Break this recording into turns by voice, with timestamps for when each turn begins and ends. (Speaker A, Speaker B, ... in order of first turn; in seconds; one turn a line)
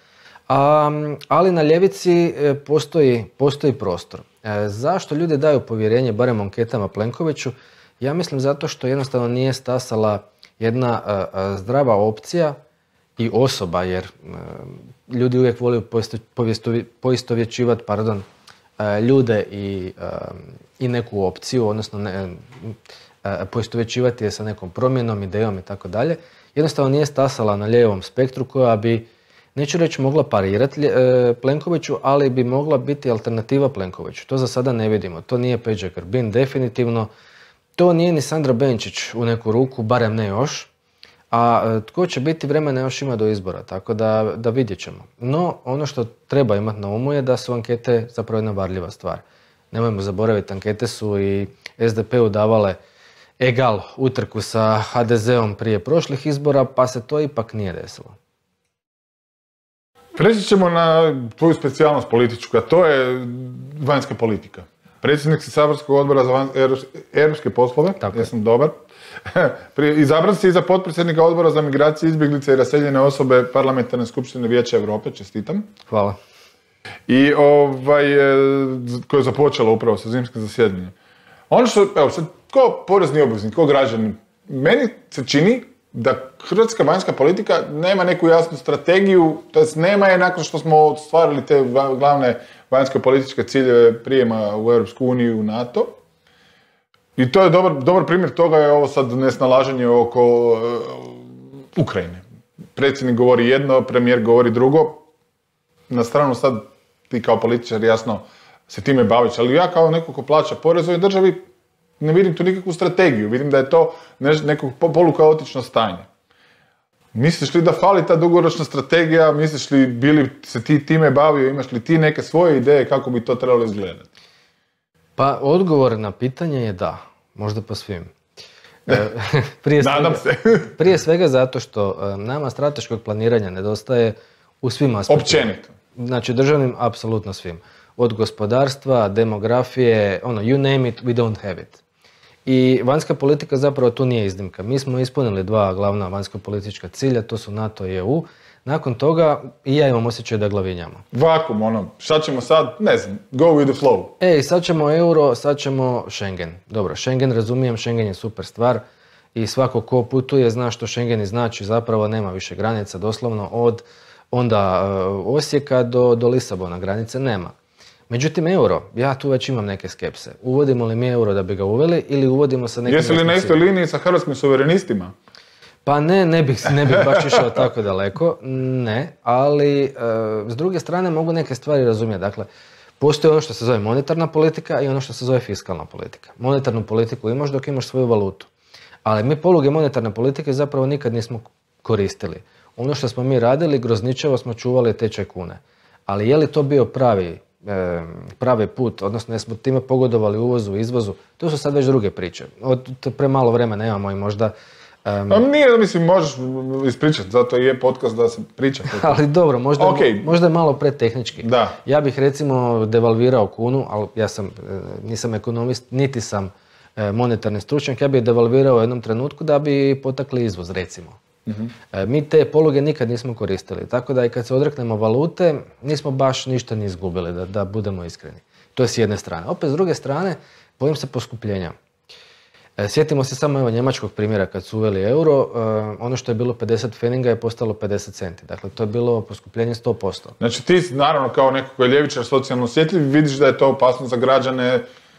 Speaker A: 0.5-12.6
Speaker A: 13.2-18.2
Speaker A: 18.8-37.1
Speaker A: 37.8-40.7
Speaker A: 41.3-52.8
Speaker A: 53.4-58.1
Speaker B: 60.1-75.7
Speaker A: 68.0-68.3
Speaker A: 75.9-76.2
Speaker B: 77.1-80.9
Speaker B: 81.5-96.0
Speaker B: 97.2-102.2
Speaker B: 102.8-105.0
Speaker B: 105.9-111.4
Speaker B: 112.0-116.1
Speaker B: 117.1-124.0
Speaker A: 125.2-128.1
Speaker A: 128.9-141.8
Speaker B: 129.8-130.7
Speaker B: 135.1-135.7
Speaker A: 142.4-151.0
Speaker B: 151.1-154.1
Speaker A: 154.2-158.8
Speaker A: 159.3-167.5
Speaker A: 168.1-173.6
Speaker B: 172.9-175.1
Speaker A: 175.8-182.5
Speaker B: 177.0-177.4
Speaker A: 183.0-188.5
Speaker A: 189.0-204.5
Speaker A: 205.0-205.4
Speaker B: 205.3-209.2
Speaker A: 208.9-221.2
Speaker B: 209.8-210.3
Speaker B: 211.4-211.8
Speaker B: 221.4-221.7
Speaker A: 221.9-231.7
Speaker A: 232.8-240.4
Speaker B: 240.4-244.8